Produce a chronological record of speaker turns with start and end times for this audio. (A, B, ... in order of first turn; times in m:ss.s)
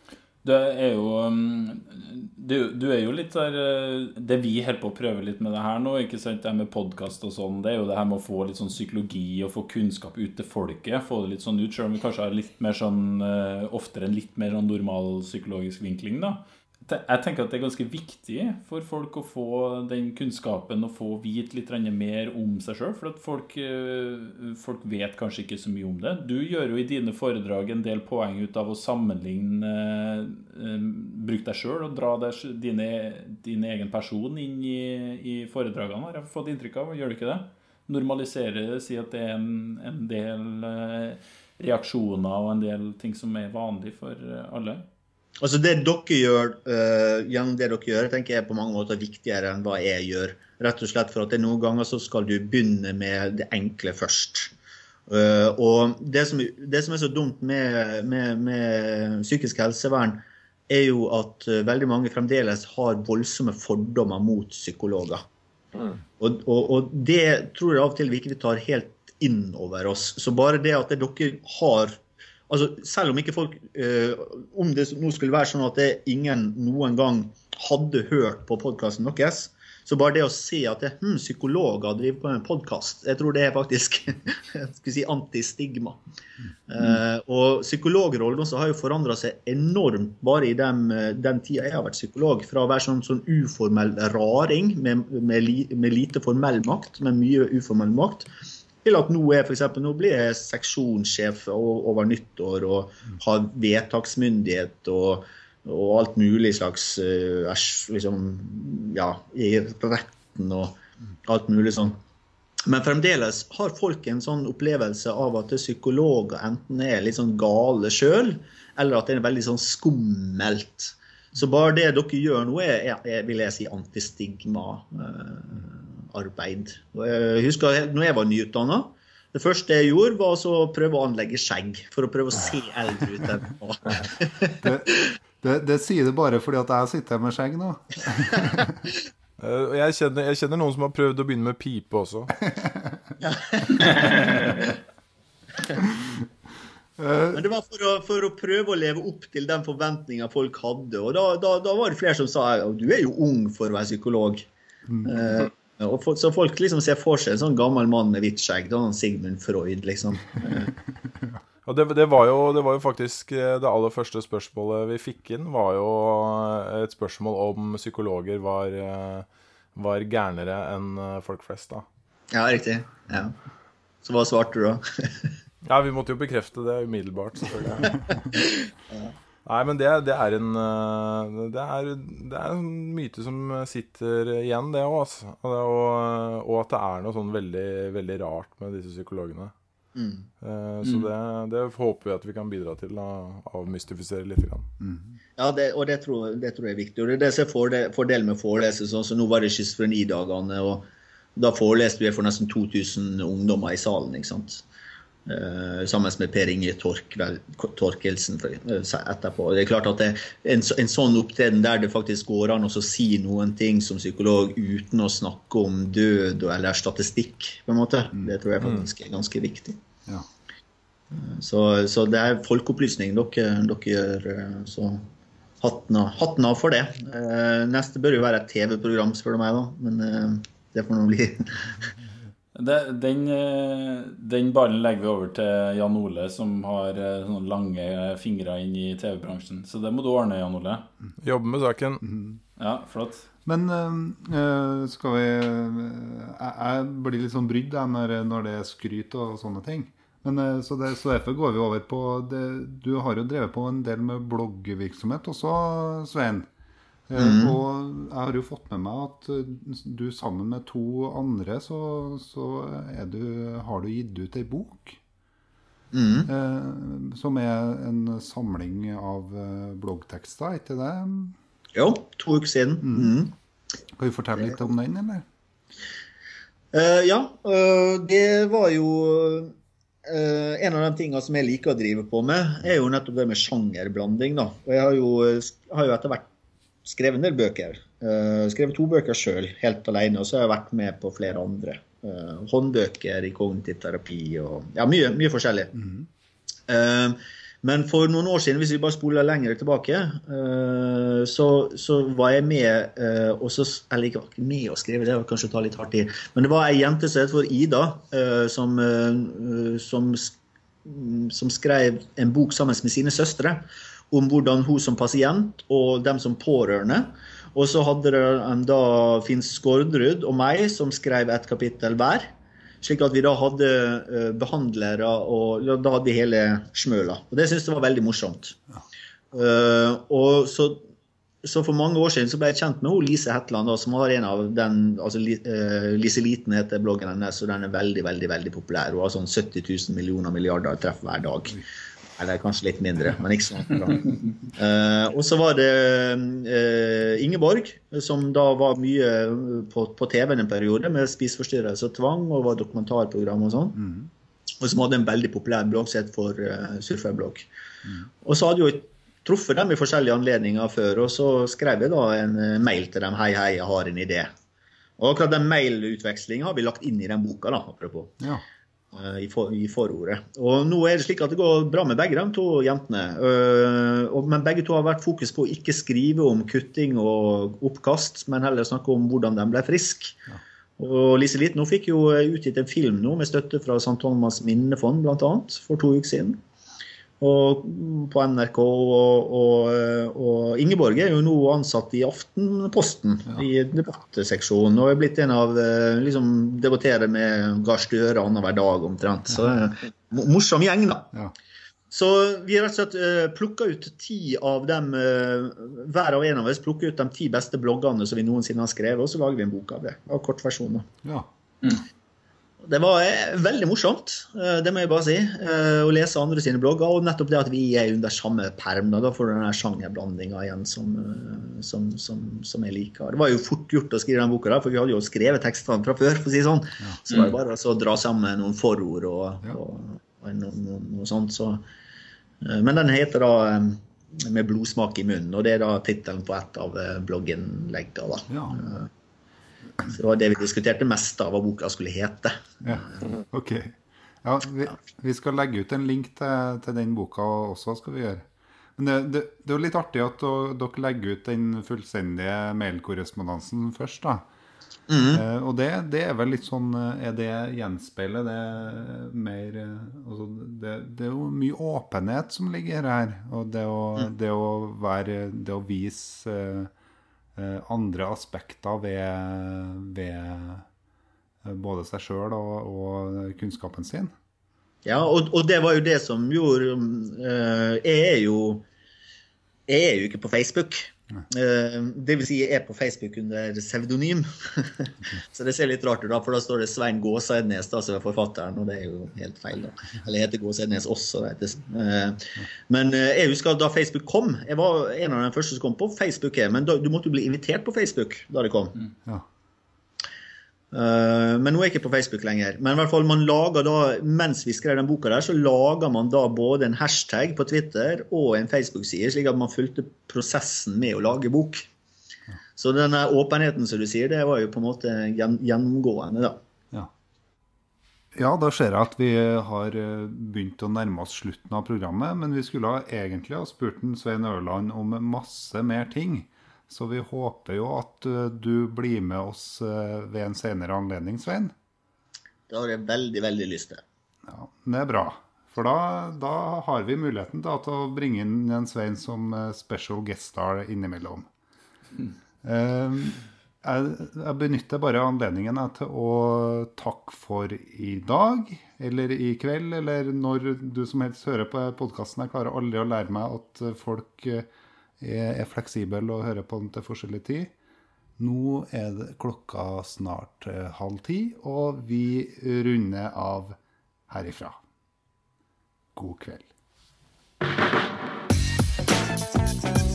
0:00.4-0:44.8 A
0:45.4-0:54.5 B
0:55.1-1:05.2 B
1:06.2-1:26.0 B
1:26.7-1:38.3 B
1:38.8-1:52.0 B
1:52.6-2:15.1 B
2:14.6-2:18.8 C
2:19.4-2:22.3 D
2:22.6-2:23.0 C
2:23.2-2:24.2 B
2:27.0-2:27.4 C
2:27.3-2:34.5 B
2:34.9-2:35.1 C
2:35.0-2:40.7 B
2:41.0-2:41.4 C
2:41.6-2:51.8 D
2:52.3-2:53.4 B
2:54.0-2:55.3 B
2:55.6-2:58.1 D
2:58.2-2:59.1 B
2:59.4-3:09.5 D
3:10.0-3:10.3 B
3:10.4-3:14.7 D
3:10.8-3:11.1 A
3:14.8-3:15.2 C
3:15.4-3:20.8 B
3:21.4-3:24.6 B
3:25.2-3:39.8 B
3:41.1-3:45.0 B
3:45.6-3:51.7 B
3:52.5-4:00.9 A
4:01.2-4:02.0 D
4:02.0-4:02.4 C
4:02.6-4:03.3 A
4:03.4-4:16.5 C
4:17.1-4:25.0 C
4:17.2-4:17.6 B
4:25.9-4:26.3 B
4:26.3-4:31.3 C
4:31.7-4:33.3 B
4:32.8-4:33.1 C
4:34.0-4:35.2 C
4:36.7-4:39.5 B
4:40.0-4:46.3 B
4:46.8-4:55.7 B
4:55.8-4:56.1 C
4:56.7-5:22.3 B
5:22.8-5:28.6 B
5:29.3-5:30.8 B
5:31.4-5:41.6 B
5:42.2-5:53.8 B
5:53.8-5:54.1 C
5:54.6-5:57.5 B
5:58.2-6:04.3 B
6:05.0-6:08.1 B
6:08.9-6:20.2 B
6:20.8-6:26.4 B
6:27.2-6:41.1 B
6:41.9-6:50.9 B
6:52.6-7:11.6 B
7:12.4-7:18.9 B
7:18.3-7:18.6 C
7:19.9-7:23.0 B
7:22.6-7:34.2 C
7:34.9-7:35.2 B
7:35.1-7:46.7 C
7:47.4-7:50.6 C
7:51.4-7:54.1 C
7:54.8-7:58.6 B
7:59.7-8:18.8 B
8:20.7-8:31.7 B
8:32.6-8:36.4 B
8:38.1-8:51.5 C
8:52.5-8:53.8 B
8:54.2-9:01.3 C
9:02.4-9:14.5 C
9:15.0-9:17.5 C
9:18.2-9:23.6 C
9:24.1-9:24.6 C
9:25.9-9:26.4 C